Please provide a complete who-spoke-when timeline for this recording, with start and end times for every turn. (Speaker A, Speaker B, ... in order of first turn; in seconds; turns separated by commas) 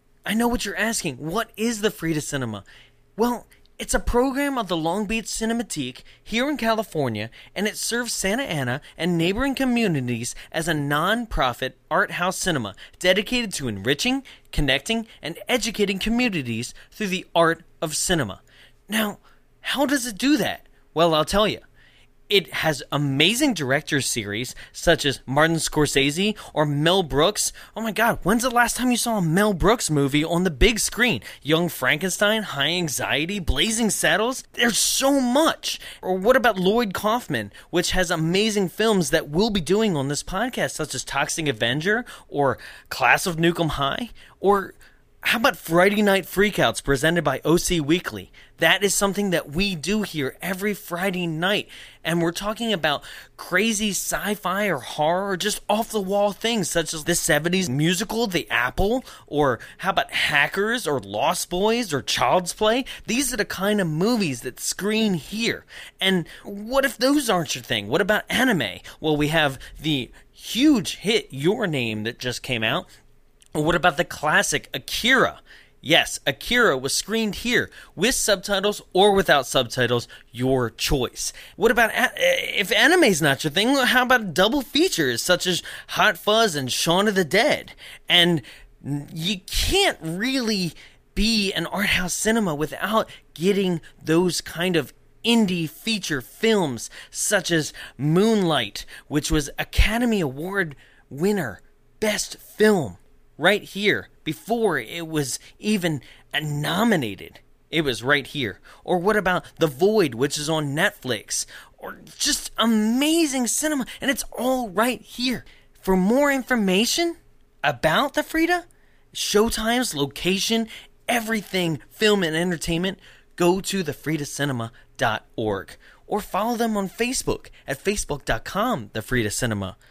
Speaker A: 0.2-2.6, Speaker A: 3.2-21.6, Speaker A: 22.3-72.9, Speaker A: 73.5-129.8